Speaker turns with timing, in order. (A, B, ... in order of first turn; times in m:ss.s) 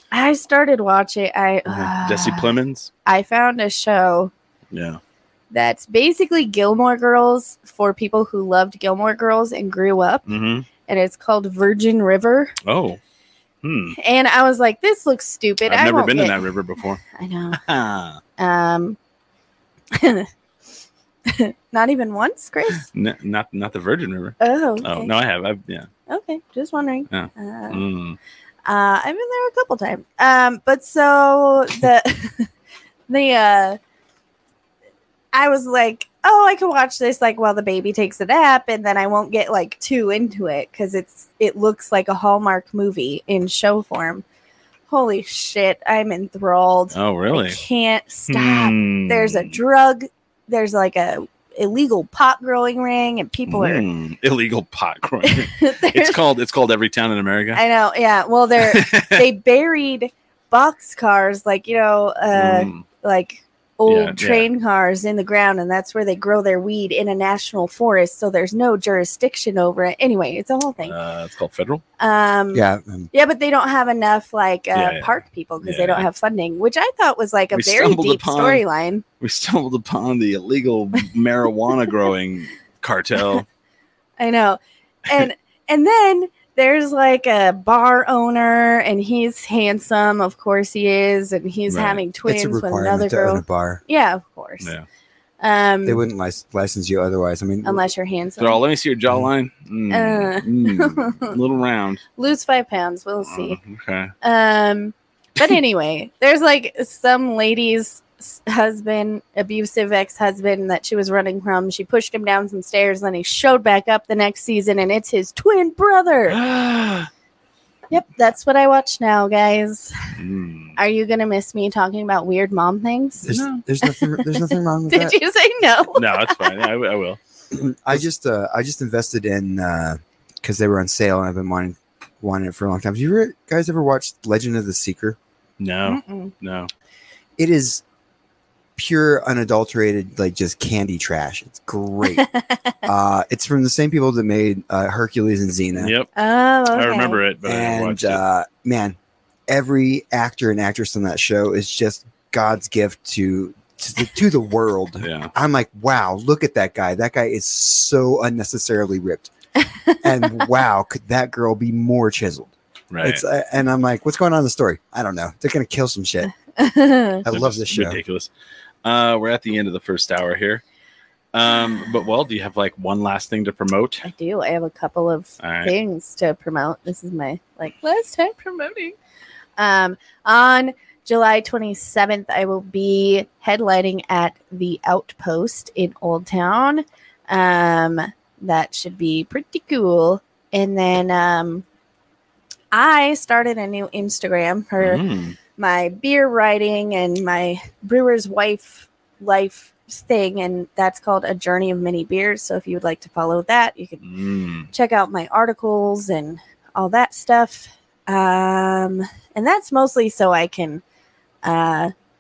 0:00.1-0:02.5 A
0:01.7-0:02.9 B
0:03.0-0:04.3 A
0:04.7-0:05.0 B
0:05.5-0:10.3 A
0:10.3-0:10.7 B
0:10.8-0:12.5 A
0:12.6-0:13.0 B
0:13.6-0:14.0 B
0:14.0-0:16.4 A
0:15.7-0:18.2 B
0:17.1-0:17.6 A
0:18.4-0:19.0 A
0:19.9-0:20.3 A
0:21.3-0:22.8 A
0:22.8-0:25.9 B
0:24.4-0:25.1 A
0:26.1-0:27.8 A
0:27.1-0:28.2 B
0:28.6-0:32.5 A
0:33.1-0:33.8 A
0:35.3-0:44.2 A
0:44.9-0:53.8 A
0:46.9-0:47.6 B
0:48.3-0:49.6 B
0:53.5-0:57.6 B
0:55.2-0:56.2 A
0:57.5-1:11.0 A
0:58.6-0:59.2 B
1:02.3-1:02.8 B
1:03.9-1:04.5 B
1:10.8-1:11.8 B
1:12.0-1:19.0 A
1:12.5-1:13.1 C
1:14.7-1:16.0 B
1:17.5-1:18.6 B
1:19.2-1:23.4 B
1:24.2-1:34.7 A
1:31.7-1:32.0 B
1:32.2-1:33.8 C
1:35.4-1:36.0 A
1:35.8-1:37.8 C
1:37.6-1:38.6 A
1:38.4-1:42.0 B
1:39.9-1:41.4 A
1:42.2-1:43.6 A
1:43.2-1:44.1 B
1:44.2-1:56.4 A
1:56.3-1:57.1 B
1:57.9-2:00.0 A
2:00.2-2:00.8 B
2:00.8-2:06.6 A
2:03.2-2:05.2 C
2:03.3-2:03.6 B
2:05.9-2:07.2 B
2:07.5-2:15.2 C
2:15.6-2:16.7 B
2:15.8-2:16.3 A
2:17.4-2:17.8 C
2:18.8-2:22.2 C
2:22.1-2:22.8 A
2:22.8-2:25.9 C
2:25.8-2:26.1 B
2:26.1-2:27.2 A
2:26.7-2:28.2 B
2:27.4-2:29.0 C
2:29.5-2:39.3 C
2:35.0-2:35.3 B
2:39.7-2:40.4 A
2:40.0-2:46.3 C
2:42.9-2:43.2 B
2:46.5-2:47.2 A
2:47.2-2:48.0 C
2:47.3-2:48.3 B
2:48.8-2:50.6 B
2:51.3-2:54.0 B
2:54.0-2:59.0 A
2:55.4-2:55.7 B
2:59.6-3:11.6 A
3:12.7-3:15.0 A
3:14.8-3:15.4 B
3:15.6-3:24.0 A
3:24.0-3:24.7 B
3:24.7-3:30.8 A
3:31.4-3:31.9 A